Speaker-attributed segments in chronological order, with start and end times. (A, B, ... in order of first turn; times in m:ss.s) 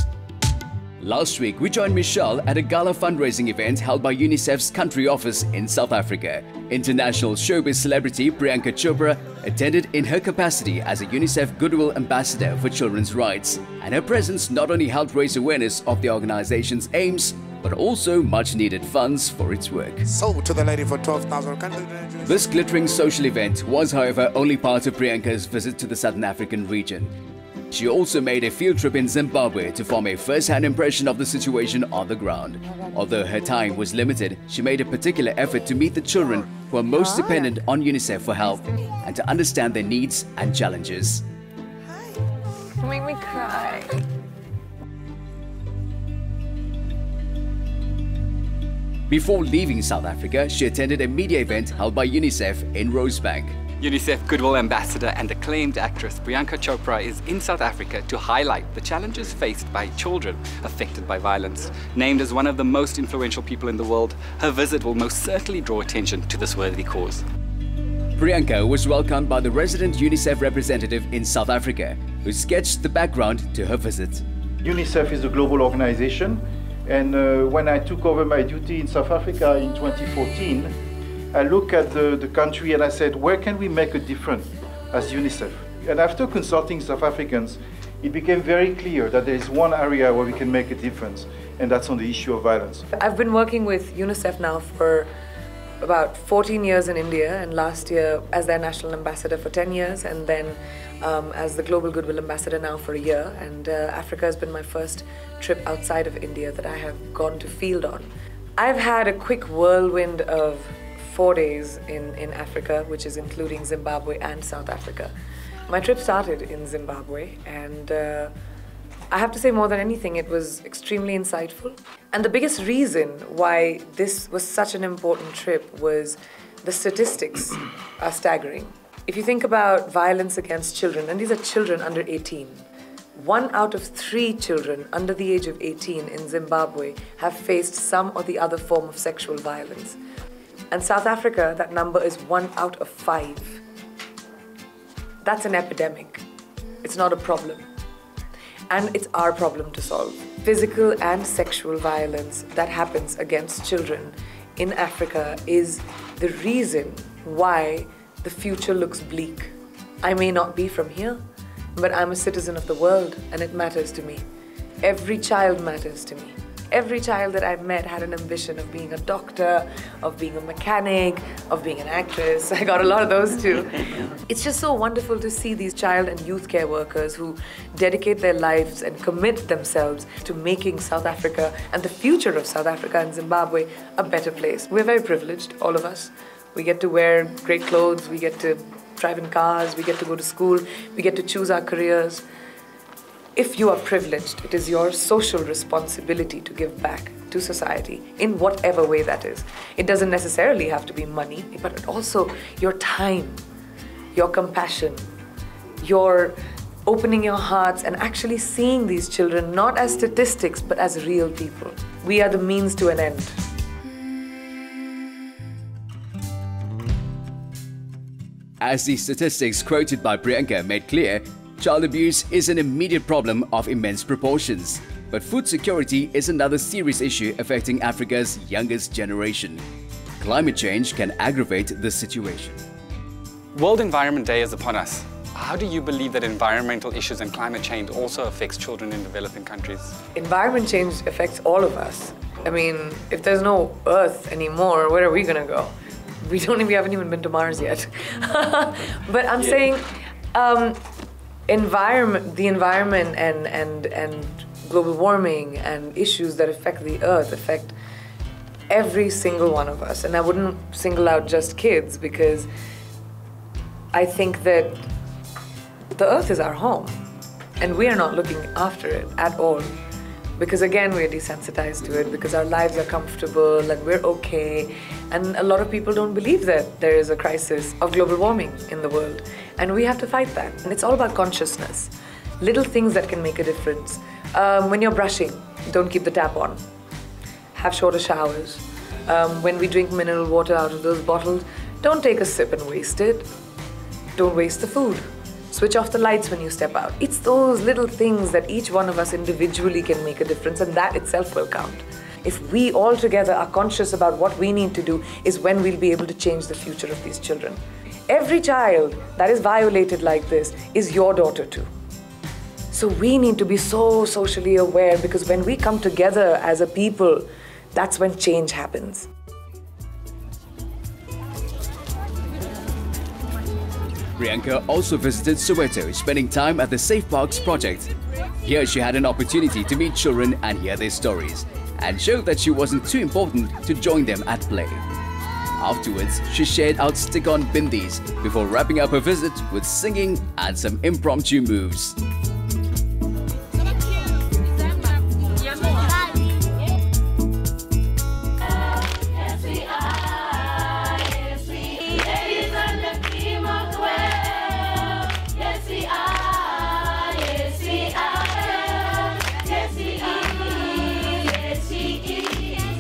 0:01.0-0:20.1 A
0:20.1-0:22.2 B
0:22.2-0:27.1 A
0:27.7-0:41.2 A
0:42.8-0:44.0 C
0:49.1-0:53.6 A
0:53.8-1:07.2 D
1:08.2-1:14.2 A
1:14.6-1:20.7 E
1:21.3-1:32.8 E
1:32.9-1:35.1 C
1:35.8-1:55.1 C
1:55.7-1:58.3 C
1:59.1-2:12.6 C
2:13.2-2:20.0 C
2:20.7-2:23.6 C
2:25.2-2:26.2 C
2:26.8-2:27.6 C
2:28.7-2:41.2 C
2:41.8-2:44.2 C
2:44.8-3:12.2 C
3:13.4-3:23.4 C
3:24.1-3:25.0 C
3:25.8-3:33.4 C
3:38.6-3:49.6 A
3:50.2-3:52.6 A
3:53.5-4:00.0 D
4:00.1-4:10.8 C
4:11.5-4:17.7 C
4:18.7-4:22.5 C
4:23.9-4:24.8 C
4:25.9-4:26.9 C
4:27.6-4:29.7 C
4:30.4-4:46.6 C
4:47.5-4:53.3 C
4:54.2-5:11.7 C
5:12.7-5:19.1 C
5:24.2-5:27.9 A
5:28.4-5:34.8 A
5:35.6-5:42.0 A
6:00.1-6:00.7 D